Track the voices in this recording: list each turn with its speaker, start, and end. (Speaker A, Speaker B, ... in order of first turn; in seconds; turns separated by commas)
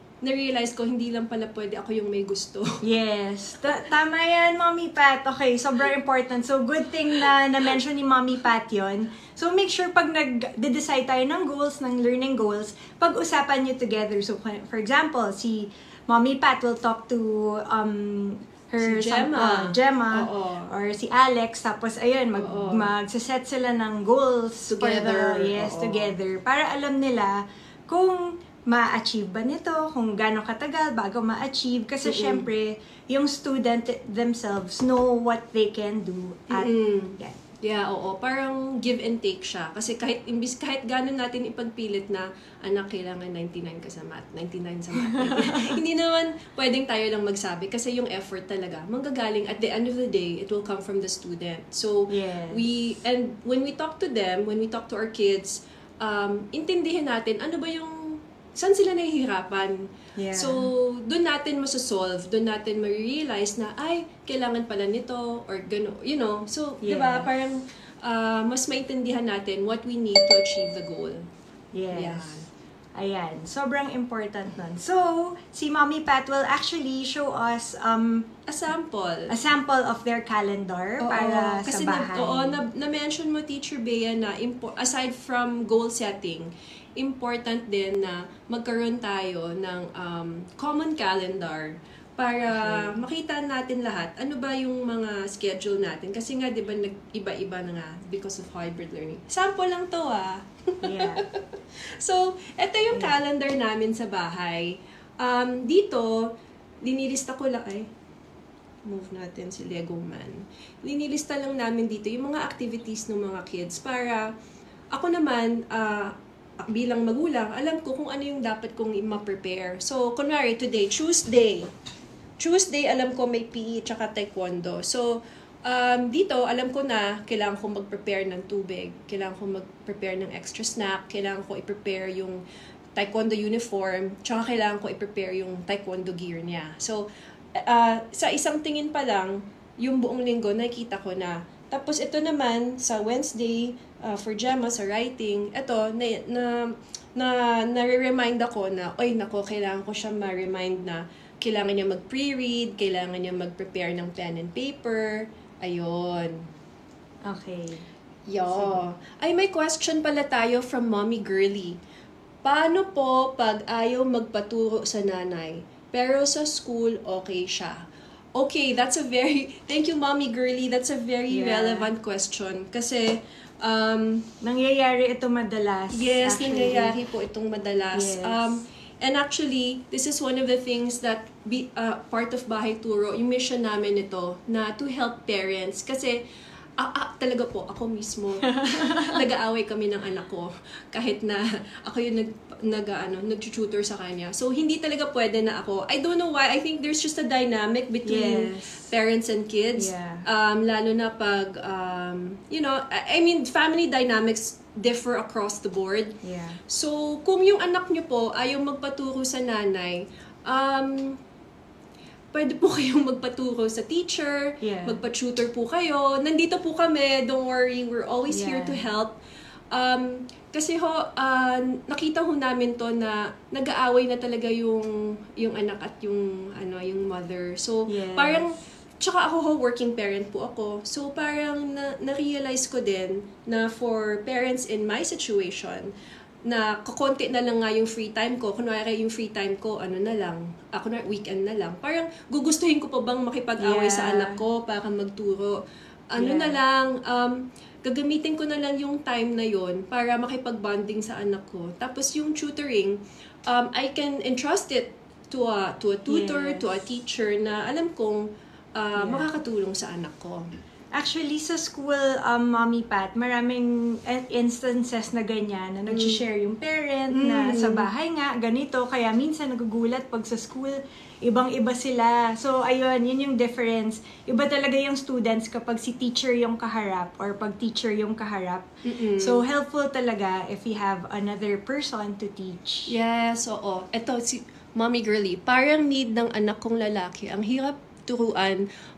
Speaker A: 0.2-2.7, Speaker B: 2.8-37.4, Speaker A: 18.8-20.7, Speaker A: 22.4-22.9, Speaker A: 24.7-26.1, Speaker A: 32.0-32.5, Speaker A: 36.5-71.2, Speaker B: 45.0-45.8, Speaker B: 52.1-52.6, Speaker B: 60.1-60.6, Speaker B: 66.8-67.3, Speaker B: 71.7-72.4, Speaker A: 71.9-72.5, Speaker B: 73.0-78.3, Speaker A: 78.5-79.3, Speaker B: 79.3-82.6, Speaker A: 81.0-106.2, Speaker B: 92.5-93.0, Speaker B: 100.8-101.2, Speaker A: 106.8-107.9, Speaker A: 108.8-114.2, Speaker A: 114.9-121.7, Speaker A: 122.4-125.1, Speaker A: 125.7-132.4, Speaker A: 132.9-137.0, Speaker A: 137.6-156.4, Speaker B: 157.3-157.8, Speaker A: 158.3-161.8, Speaker B: 158.5-158.8, Speaker A: 162.4-167.8, Speaker A: 168.3-174.3, Speaker B: 171.3-171.9, Speaker B: 174.4-176.9, Speaker A: 175.9-186.2, Speaker B: 177.9-178.6, Speaker A: 186.8-206.2, Speaker B: 188.4-189.2, Speaker B: 198.1-198.9, Speaker B: 199.8-200.2, Speaker B: 206.2-206.6, Speaker A: 206.7-211.2, Speaker A: 212.3-219.2, Speaker B: 214.6-215.0, Speaker B: 218.3-218.8, Speaker A: 219.7-235.9, Speaker B: 227.9-228.4, Speaker A: 236.5-253.0, Speaker B: 243.6-244.4, Speaker B: 246.2-246.6, Speaker A: 253.5-258.2, Speaker B: 256.1-256.6, Speaker A: 258.8-260.4, Speaker B: 259.0-259.3, Speaker B: 260.9-278.7, Speaker A: 265.9-266.2, Speaker A: 267.1-267.9, Speaker A: 278.8-279.4, Speaker B: 279.2-282.9, Speaker A: 282.9-288.6